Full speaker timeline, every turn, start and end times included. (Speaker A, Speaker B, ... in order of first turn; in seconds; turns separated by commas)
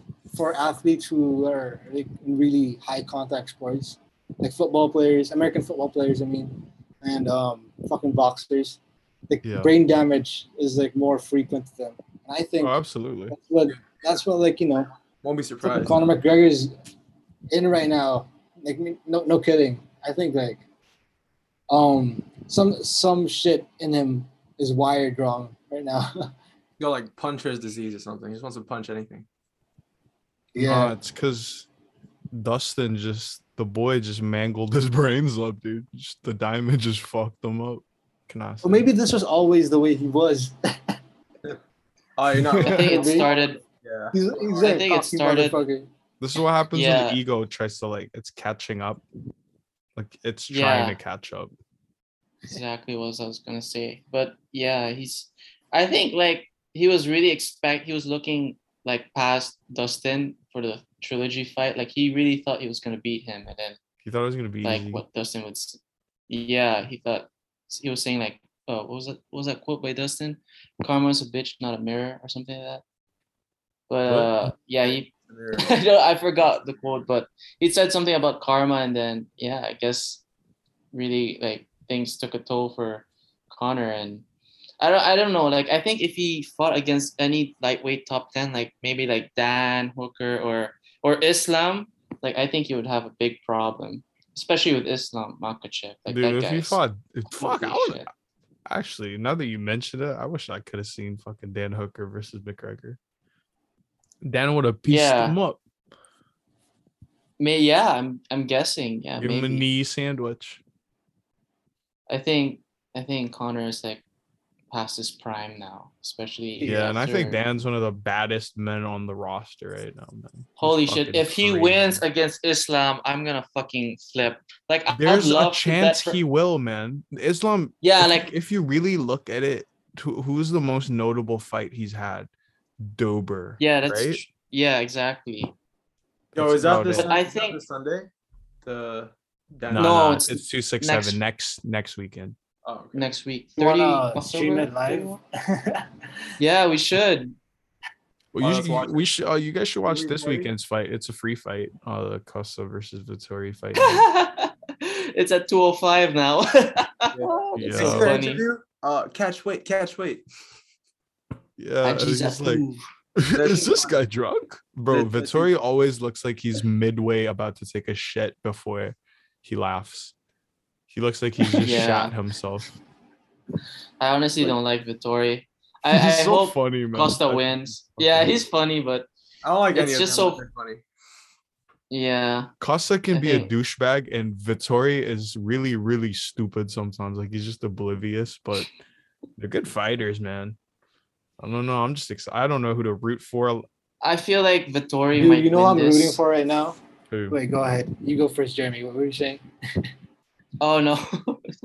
Speaker A: 0.3-12.8, Speaker B: 9.4-9.7, Speaker B: 12.6-13.3, Speaker A: 13.3-14.9, Speaker C: 15.2-16.0, Speaker A: 15.6-16.7, Speaker A: 17.5-20.6, Speaker A: 21.7-26.3, Speaker C: 26.8-29.2, Speaker A: 30.5-30.9, Speaker B: 30.6-31.7, Speaker B: 32.3-38.9, Speaker A: 38.6-41.0, Speaker C: 42.2-44.8, Speaker B: 42.4-42.9, Speaker D: 42.6-43.6, Speaker A: 42.7-43.3, Speaker A: 44.1-45.9, Speaker D: 44.6-45.6, Speaker B: 46.2-49.0, Speaker D: 46.7-47.2, Speaker B: 50.0-51.5, Speaker D: 50.5-51.0, Speaker D: 52.5-63.8, Speaker B: 64.0-65.0, Speaker D: 64.6-72.8, Speaker D: 73.9-80.2, Speaker B: 74.0-74.4, Speaker C: 75.3-75.8, Speaker D: 80.9-84.2, Speaker D: 84.8-96.8, Speaker B: 96.1-98.1, Speaker D: 97.3-98.1, Speaker B: 98.7-103.0, Speaker B: 104.2-105.6, Speaker D: 104.9-105.3, Speaker D: 107.4-109.6, Speaker B: 109.2-110.6, Speaker D: 112.1-114.0, Speaker D: 114.7-117.4, Speaker A: 116.6-116.9, Speaker B: 116.6-122.0, Speaker D: 120.6-126.2, Speaker B: 124.9-134.2, Speaker D: 127.8-128.3, Speaker D: 133.6-135.5, Speaker C: 136.3-138.1, Speaker B: 136.3-137.1, Speaker D: 136.9-137.6, Speaker C: 138.6-140.0, Speaker B: 139.7-142.3, Speaker D: 139.7-141.2, Speaker C: 142.6-143.1, Speaker D: 142.9-145.2, Speaker A: 143.6-145.9, Speaker D: 146.4-147.4, Speaker B: 148.3-154.1, Speaker C: 148.4-149.0, Speaker C: 149.9-150.5, Speaker D: 153.8-158.4, Speaker C: 157.1-160.2, Speaker B: 157.5-158.2, Speaker B: 161.6-162.6, Speaker D: 161.8-162.8, Speaker B: 163.2-170.1, Speaker C: 163.3-163.9, Speaker C: 164.9-165.5, Speaker B: 170.9-172.8, Speaker D: 171.6-172.1, Speaker D: 174.0-179.1, Speaker B: 175.9-178.4, Speaker C: 179.4-180.8, Speaker D: 179.7-180.4, Speaker D: 181.9-182.5, Speaker B: 182.6-188.7, Speaker D: 183.1-183.5, Speaker B: 189.4-190.6, Speaker B: 191.4-193.6, Speaker D: 194.0-196.2, Speaker A: 195.2-196.8, Speaker B: 197.1-197.4, Speaker A: 197.3-199.4, Speaker D: 200.6-201.5